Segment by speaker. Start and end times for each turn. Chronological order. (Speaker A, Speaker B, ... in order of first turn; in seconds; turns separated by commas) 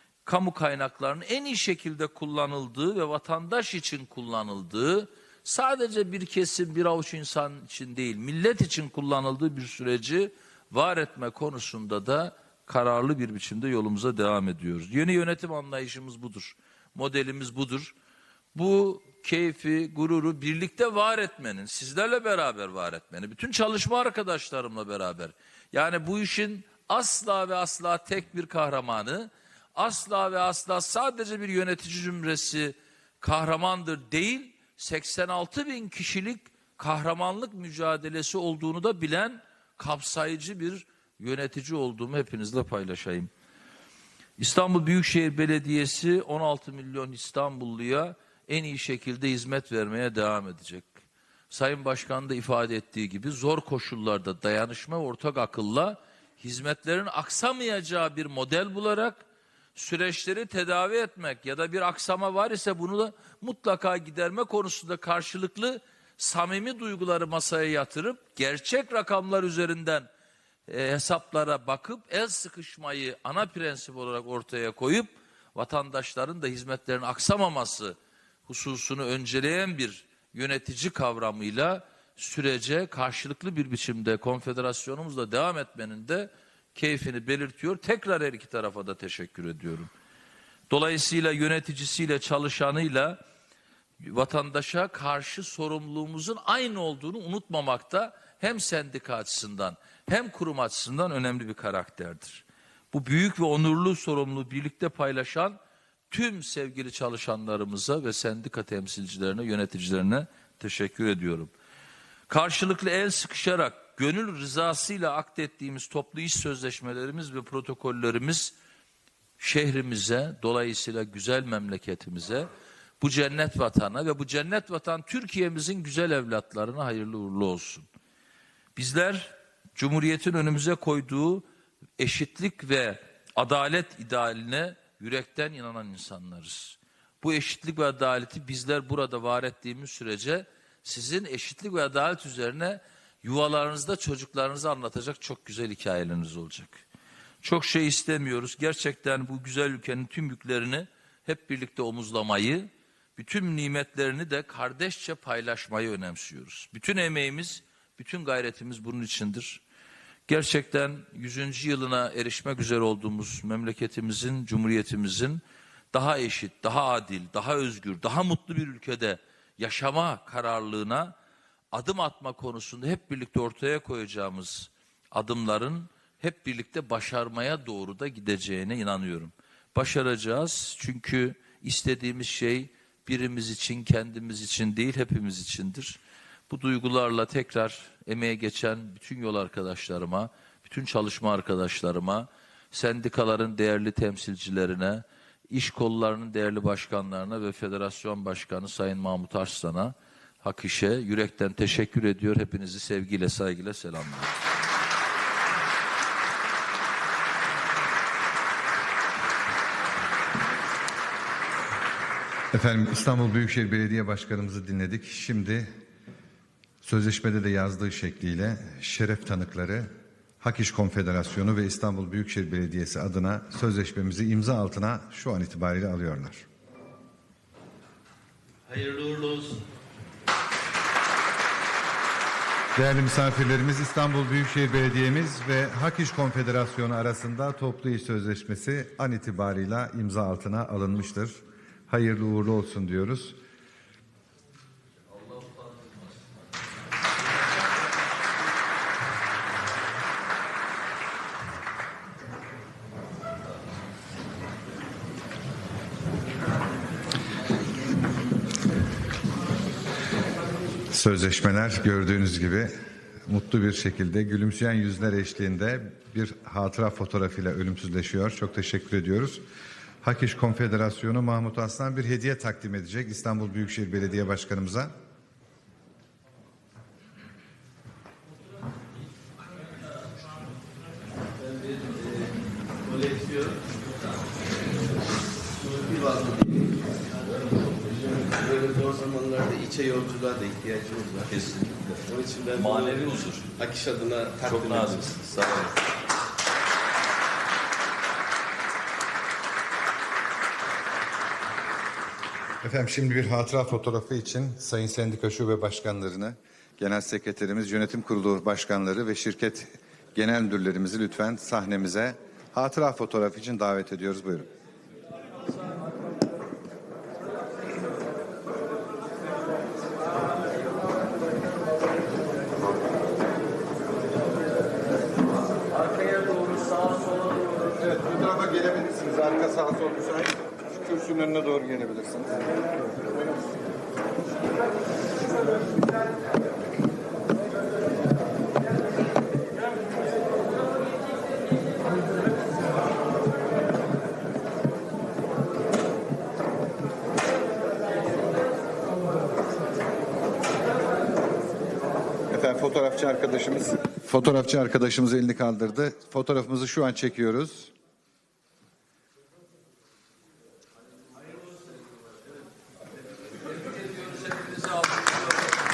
Speaker A: 0.2-17.9, Speaker A: 18.5-43.3, Speaker A: 44.4-51.0, Speaker A: 51.5-70.1, Speaker A: 70.7-89.9, Speaker A: 90.7-93.2, Speaker A: 94.0-105.6, Speaker A: 106.1-111.5, Speaker A: 112.3-118.5, Speaker A: 119.4-122.5, Speaker A: 123.0-127.8, Speaker A: 128.8-131.4, Speaker A: 132.0-146.8, Speaker A: 147.4-159.6, Speaker A: 160.3-165.4, Speaker A: 165.9-171.1, Speaker A: 171.7-204.3, Speaker B: 212.5-215.7, Speaker B: 216.8-219.9, Speaker B: 220.4-226.5, Speaker A: 228.7-229.6, Speaker B: 232.8-243.4, Speaker A: 245.1-246.2, Speaker B: 260.9-262.7, Speaker B: 263.2-269.4, Speaker B: 270.0-274.9, Speaker C: 281.5-283.8, Speaker C: 285.6-291.5, Speaker A: 291.3-293.6, Speaker C: 292.0-295.2, Speaker A: 294.4-295.7, Speaker B: 302.6-314.5, Speaker A: 325.9-327.0, Speaker B: 327.6-332.6, Speaker B: 352.3-357.7, Speaker A: 363.8-365.1